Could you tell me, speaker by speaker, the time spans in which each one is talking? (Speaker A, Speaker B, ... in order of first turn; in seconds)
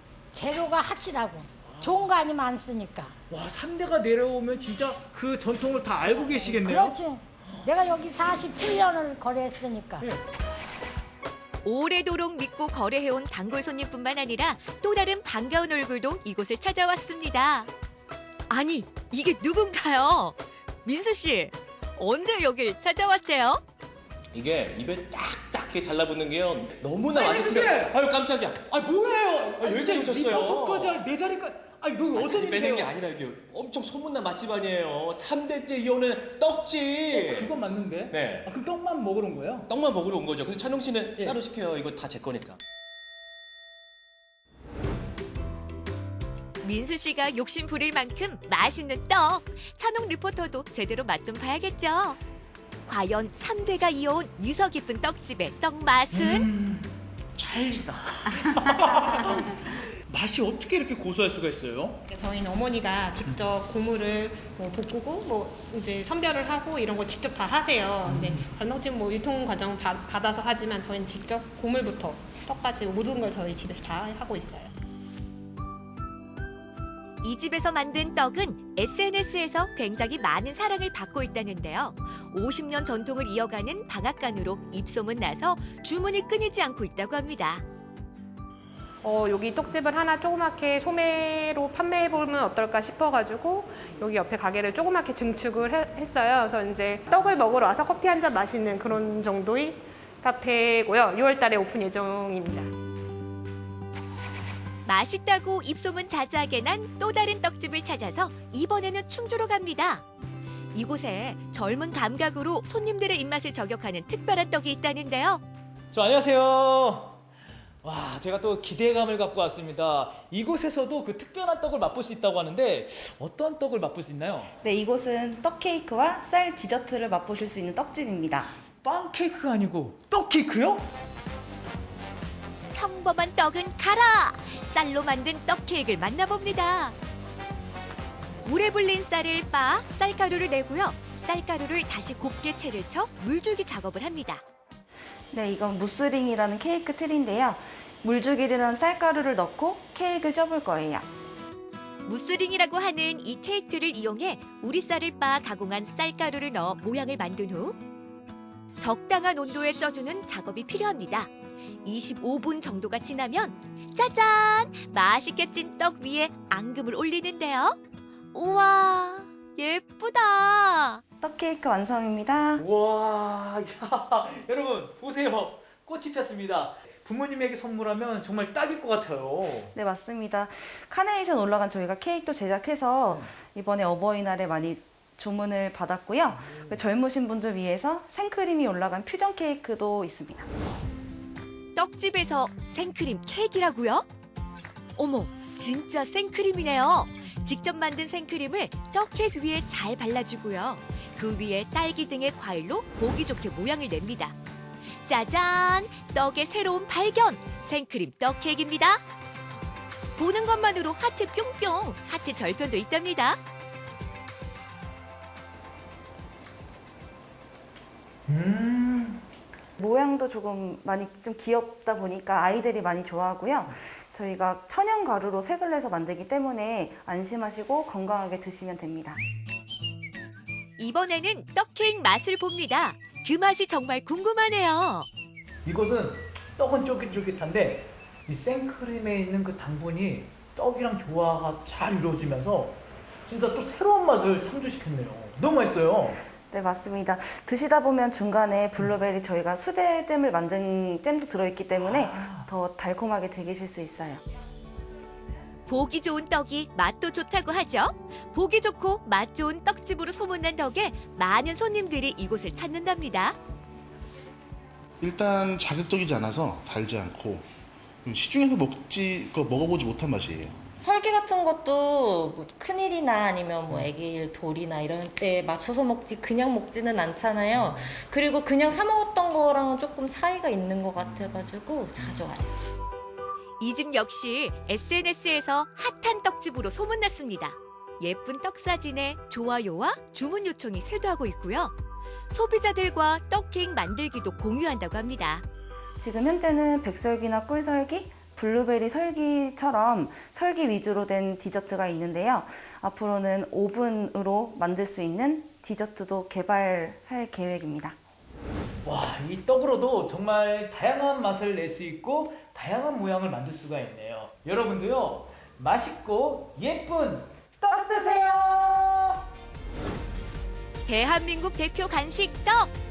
Speaker A: 0.3-3.1, 6.2-10.1
Speaker B: 1.6-2.1, 3.3-7.7, 27.1-28.0, 28.7-32.9, 37.1-39.7, 56.1-62.0, 68.0-68.5, 115.9-117.2, 117.8-124.5, 128.8-130.9, 172.6-179.7, 218.3-219.2, 235.7-242.8, 243.3-246.2, 251.8-252.5, 308.8-319.2
Speaker C: 11.6-17.7, 18.5-23.6, 46.6-52.2, 52.9-56.5, 77.2-87.6, 104.9-110.0, 110.7-115.4, 132.7-136.9, 138.5-144.4, 152.1-157.8, 158.8-161.3, 161.8-167.8, 168.3-171.0, 191.8-194.1, 195.0-204.3, 205.0-209.0, 210.2-213.4, 230.8-235.1, 255.7-263.4, 283.6-291.7, 292.3-295.4, 320.9-322.7
Speaker D: 24.3-28.6, 29.6-31.0, 32.1-37.5, 38.1-38.5, 39.7-42.6
Speaker E: 62.1-74.7, 89.0-102.7
Speaker F: 124.6-128.5, 145.3-151.1, 171.2-172.6, 179.7-190.5, 219.8-229.2, 246.5-254.2, 296.0-307.9, 317.8-318.4
Speaker G: 265.0-267.5, 268.1-270.6
Speaker H: 270.8-282.5